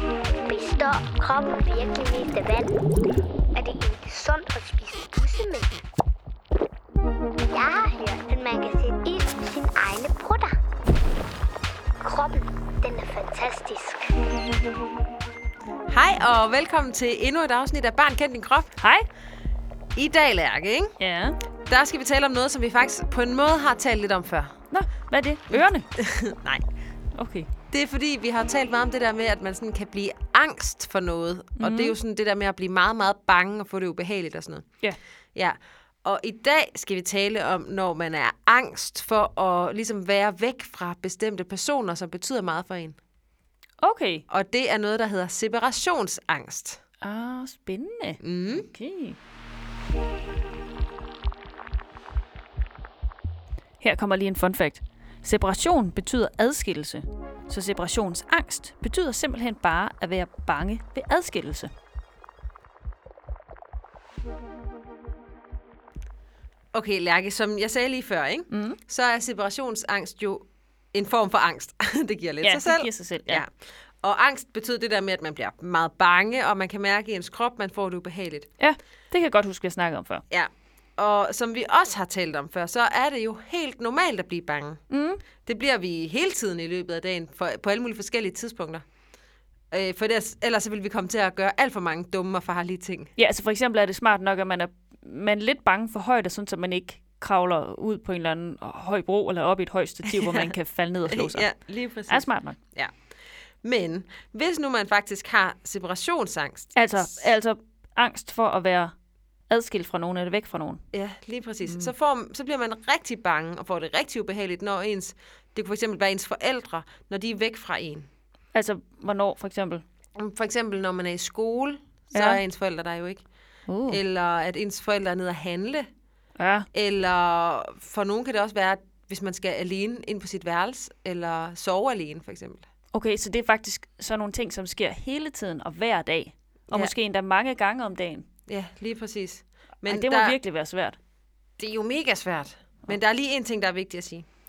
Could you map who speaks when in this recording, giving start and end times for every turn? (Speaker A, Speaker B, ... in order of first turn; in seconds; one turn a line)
Speaker A: 0.5-2.8
Speaker A: 3.5-5.8
Speaker A: 7.5-10.5
Speaker A: 12.0-14.1
Speaker B: 15.9-18.7
Speaker C: 18.8-19.1
Speaker B: 19.9-20.9
Speaker C: 21.0-21.4
Speaker B: 21.7-24.5
Speaker C: 24.7-25.9
Speaker B: 25.5-26.6
Speaker C: 27.1-27.5
Speaker B: 27.7-34.6
Speaker C: 31.6-31.9
Speaker B: 35.3-43.0
Speaker C: 43.8-44.2
Speaker B: 44.3-46.8
Speaker C: 47.0-49.2
Speaker B: 48.2-48.7
Speaker C: 53.8-61.7
Speaker B: 66.7-73.5
Speaker C: 68.5-68.8
Speaker C: 72.4-73.4
Speaker B: 74.0-78.5
Speaker C: 78.6-80.2
Speaker B: 80.3-84.8
Speaker C: 84.9-85.2
Speaker B: 85.4-88.8
Speaker B: 89.7-93.1
Speaker C: 93.2-101.5
Speaker B: 100.1-100.5
Speaker B: 101.1-102.9
Speaker C: 102.1-102.6
Speaker B: 103.6-107.3
Speaker C: 106.7-108.9
Speaker C: 109.5-110.8
Speaker B: 110.9-118.1
Speaker C: 111.6-111.9
Speaker C: 118.5-119.8
Speaker B: 120.2-123.2
Speaker C: 122.1-122.4
Speaker C: 123.7-124.0
Speaker B: 123.9-125.9
Speaker C: 126.4-126.7
Speaker B: 126.7-132.7
Speaker C: 132.9-138.2
Speaker B: 138.5-140.4
Speaker C: 139.8-141.0
Speaker B: 141.6-144.2